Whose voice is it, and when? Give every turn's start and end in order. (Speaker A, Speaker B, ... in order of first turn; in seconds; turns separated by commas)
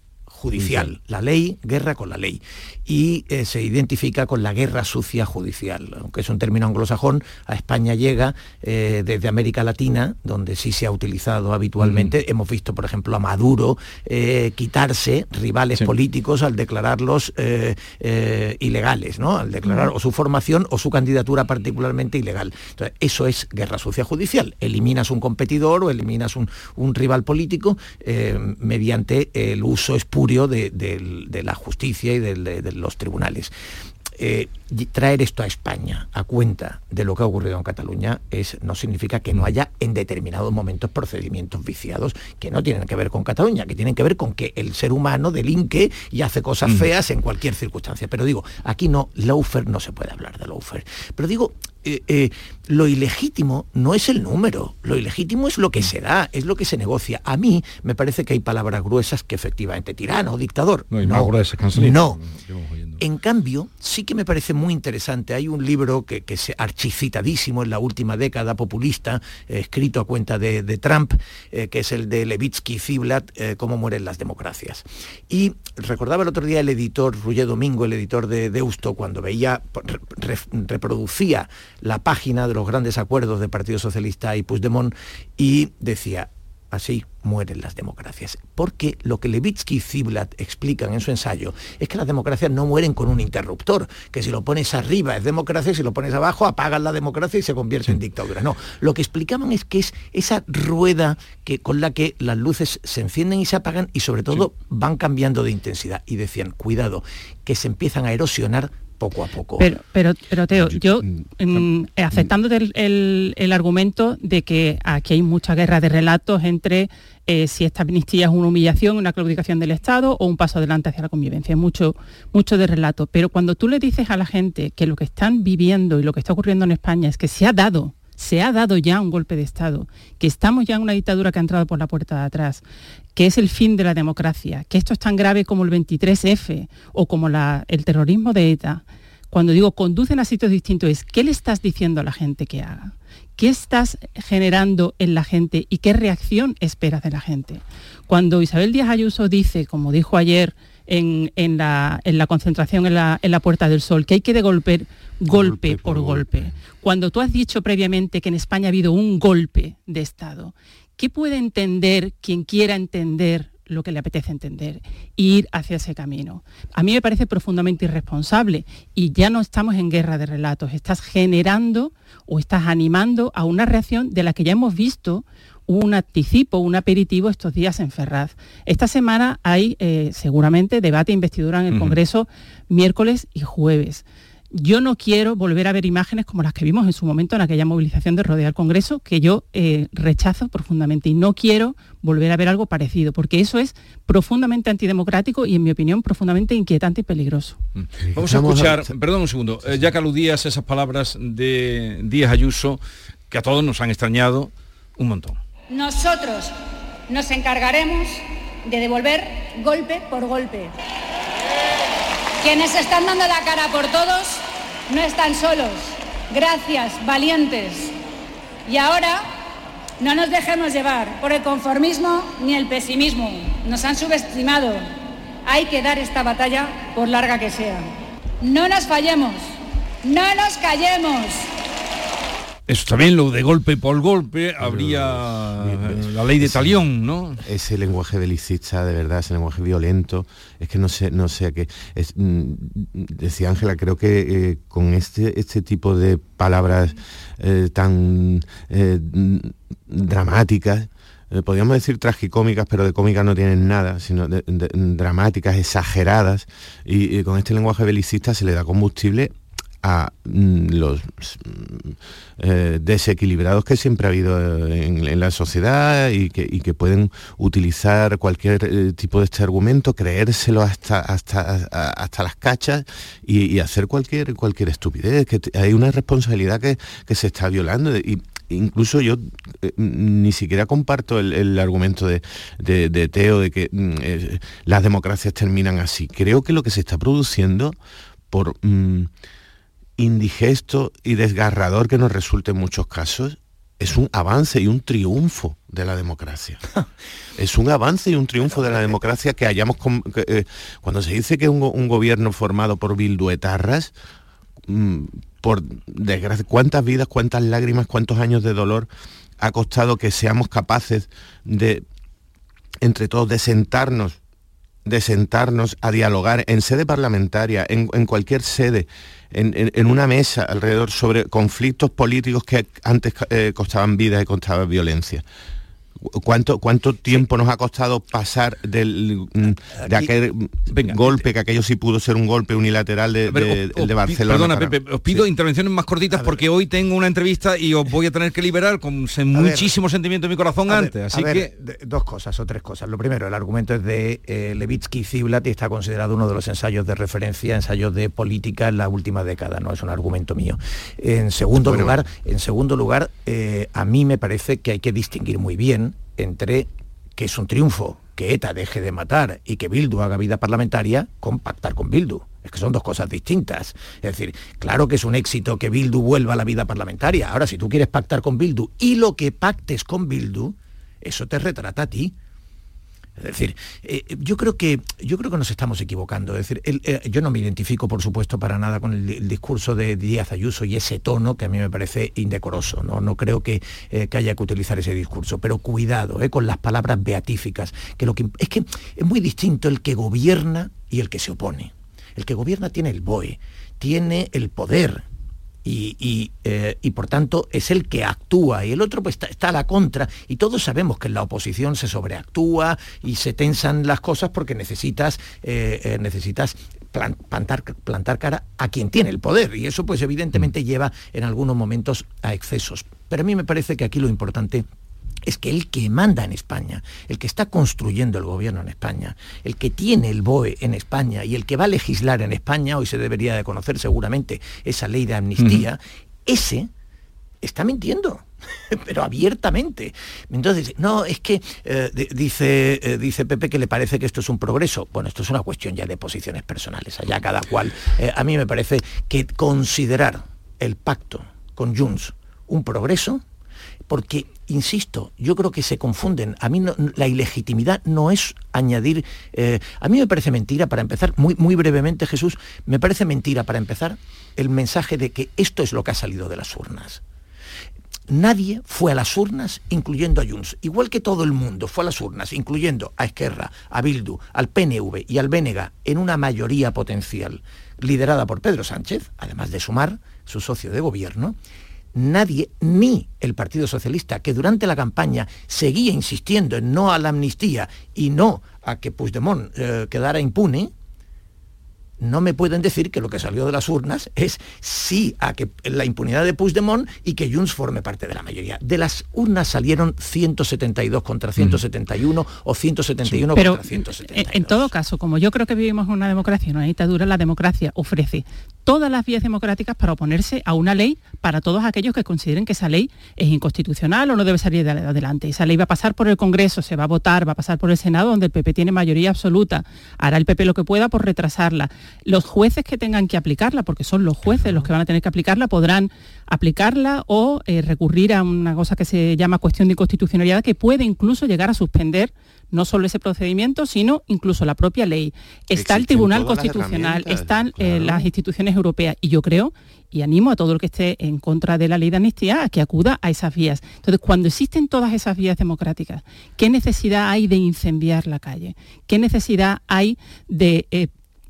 Speaker A: 0.3-33.5, Speaker B: 0.5-0.9, Speaker B: 11.8-12.1, Speaker A: 34.2-62.2, Speaker B: 60.9-63.0, Speaker A: 63.0-109.7, Speaker C: 109.6-132.6, Speaker D: 110.5-111.2, Speaker C: 133.2-197.6, Speaker D: 155.3-156.4, Speaker B: 181.7-182.0, Speaker B: 197.8-205.4, Speaker D: 198.1-198.9, Speaker E: 205.7-206.5, Speaker E: 207.1-210.7, Speaker E: 212.4-217.9, Speaker E: 218.7-219.3, Speaker E: 220.0-224.9, Speaker E: 225.4-227.8, Speaker E: 228.4-231.4, Speaker B: 232.7-237.4, Speaker D: 234.6-236.8, Speaker D: 237.4-287.8, Speaker D: 288.3-289.1, Speaker D: 290.0-296.6, Speaker D: 297.4-303.9, Speaker A: 298.4-299.0, Speaker D: 304.7-308.9, Speaker D: 309.4-311.8, Speaker D: 312.8-314.2, Speaker D: 314.9-325.2, Speaker D: 326.1-335.2, Speaker A: 329.7-330.1, Speaker B: 330.7-331.1, Speaker B: 333.3-341.5, Speaker A: 336.1-336.4, Speaker A: 339.3-339.7, Speaker A: 340.7-372.1, Speaker D: 351.6-352.0, Speaker A: 373.2-395.0, Speaker A: 395.6-414.7, Speaker A: 415.3-426.7, Speaker B: 425.4-425.7, Speaker A: 427.4-443.2, Speaker A: 443.9-457.0, Speaker A: 458.1-471.4, Speaker A: 471.9-480.7, Speaker A: 482.0-494.7, Speaker C: 493.4-540.9, Speaker D: 525.5-528.1